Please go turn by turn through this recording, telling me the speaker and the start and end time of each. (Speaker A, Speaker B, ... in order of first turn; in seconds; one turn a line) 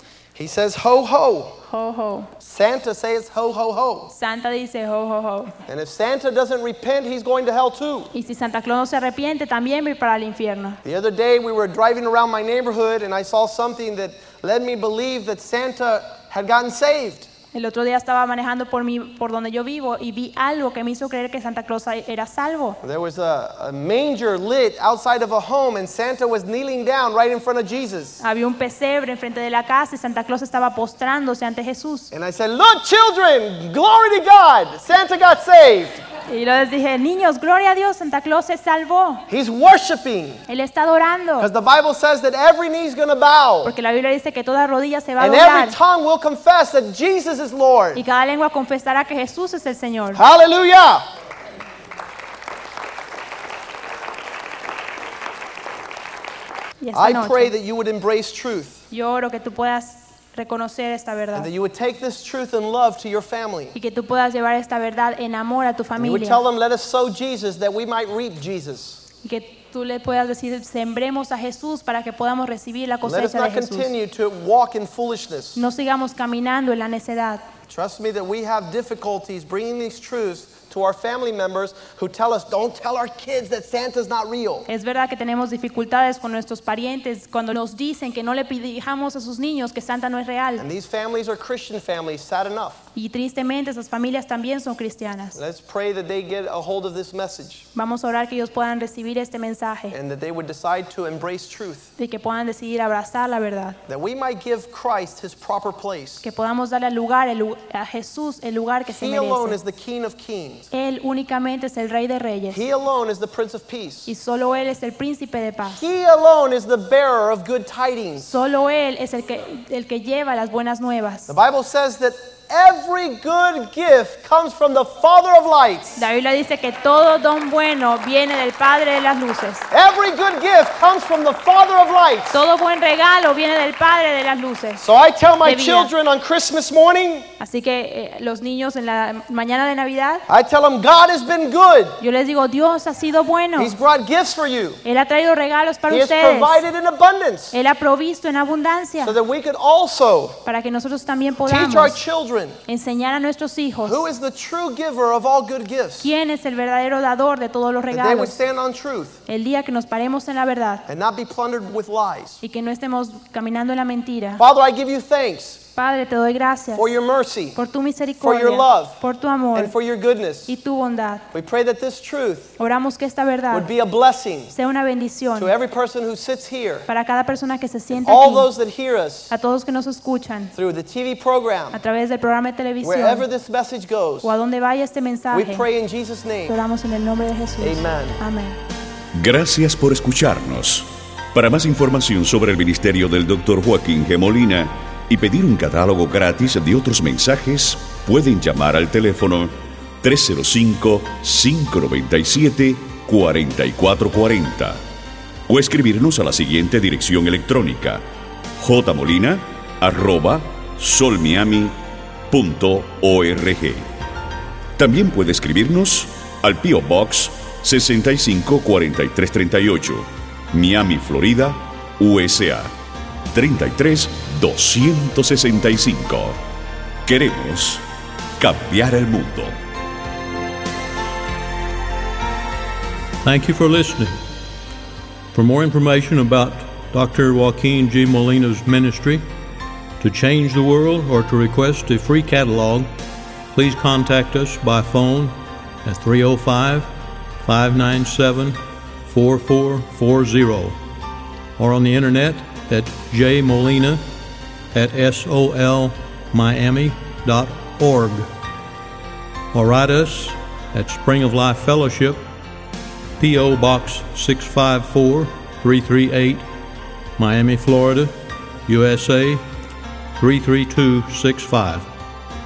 Speaker A: 0.3-1.6
Speaker B: 1.7-2.3
Speaker A: 2.4-4.1
Speaker B: 4.1-5.6
Speaker A: 5.7-8.1
Speaker B: 8.1-10.8
Speaker A: 10.8-17.3
Speaker B: 17.5-22.8
Speaker A: 22.8-28.2
Speaker B: 28.2-32.1
Speaker A: 32.1-36.0
Speaker B: 36.3-39.3
Speaker A: 39.3-40.4
Speaker B: 40.5-41.5
Speaker A: 41.4-43.7
Speaker B: 43.6-45.8
Speaker A: 45.2-48.0
Speaker B: 47.9-50.2
Speaker A: 50.1-51.0
Speaker B: 56.8-57.5
Speaker A: 56.9-58.8
Speaker B: 58.9-61.5
Speaker A: 61.4-63.8
Speaker B: 63.7-66.4
Speaker A: 66.0-69.0
Speaker B: 69.2-73.9
Speaker A: 73.0-75.6
Speaker B: 75.5-77.5
Speaker A: 77.7-84.7
Speaker B: 84.7-90.6
Speaker A: 90.6-92.8
Speaker B: 92.9-95.4
Speaker A: 95.3-97.7
Speaker B: 97.7-100.0
Speaker A: 99.9-101.9
Speaker B: 102.0-103.8
Speaker A: 103.9-106.2
Speaker B: 106.2-109.6
Speaker A: 108.9-110.7
Speaker B: 110.7-112.6
Speaker A: 112.5-114.1
Speaker B: 114.1-115.8
Speaker A: 115.7-118.3
Speaker B: 118.2-121.3
Speaker A: 121.3-126.0
Speaker B: 126.0-129.7
Speaker A: 129.7-132.4
Speaker B: 132.3-134.8
Speaker A: 134.8-137.3
Speaker B: 135.4-135.9
Speaker B: 137.4-140.2
Speaker A: 140.3-142.0
Speaker B: 142.0-143.8
Speaker A: 143.6-144.8
Speaker B: 144.8-146.6
Speaker A: 145.9-147.6
Speaker B: 147.5-149.2
Speaker A: 149.0-150.4
Speaker B: 150.4-152.0
Speaker A: 151.4-152.6
Speaker B: 152.7-154.0
Speaker A: 153.8-156.1
Speaker B: 156.0-158.4
Speaker A: 157.9-159.2
Speaker B: 159.3-160.8
Speaker A: 160.9-162.4
Speaker B: 162.4-164.4
Speaker A: 164.4-165.6
Speaker B: 165.8-166.9
Speaker A: 166.7-167.6
Speaker B: 167.6-169.8
Speaker A: 168.2-169.0
Speaker A: 169.5-170.5
Speaker B: 170.5-171.3
Speaker A: 171.3-172.6
Speaker B: 172.6-173.7
Speaker A: 173.5-174.5
Speaker B: 174.5-175.5
Speaker A: 175.4-176.9
Speaker B: 176.9-178.5
Speaker A: 178.0-179.3
Speaker B: 179.3-180.5
Speaker A: 180.5-181.8
Speaker B: 181.7-183.2
Speaker A: 182.8-184.3
Speaker B: 184.2-185.7
Speaker A: 185.3-186.6
Speaker B: 186.5-188.6
Speaker A: 187.6-188.2
Speaker C: 189.1-204.8
Speaker C: 205.5-208.0
Speaker C: 208.6-211.8
Speaker C: 212.3-213.8
Speaker C: 214.8-222.7
Speaker C: 223.3-226.4
Speaker C: 227.1-227.8
Speaker C: 228.4-229.6
Speaker D: 233.2-234.1
Speaker D: 235.3-239.2
Speaker D: 240.0-242.9
Speaker D: 243.5-246.9
Speaker D: 247.4-250.8
Speaker D: 251.6-254.0
Speaker D: 254.7-258.3
Speaker D: 259.5-262.2
Speaker D: 263.2-266.5
Speaker D: 267.2-268.1
Speaker D: 268.6-269.4
Speaker D: 270.2-271.9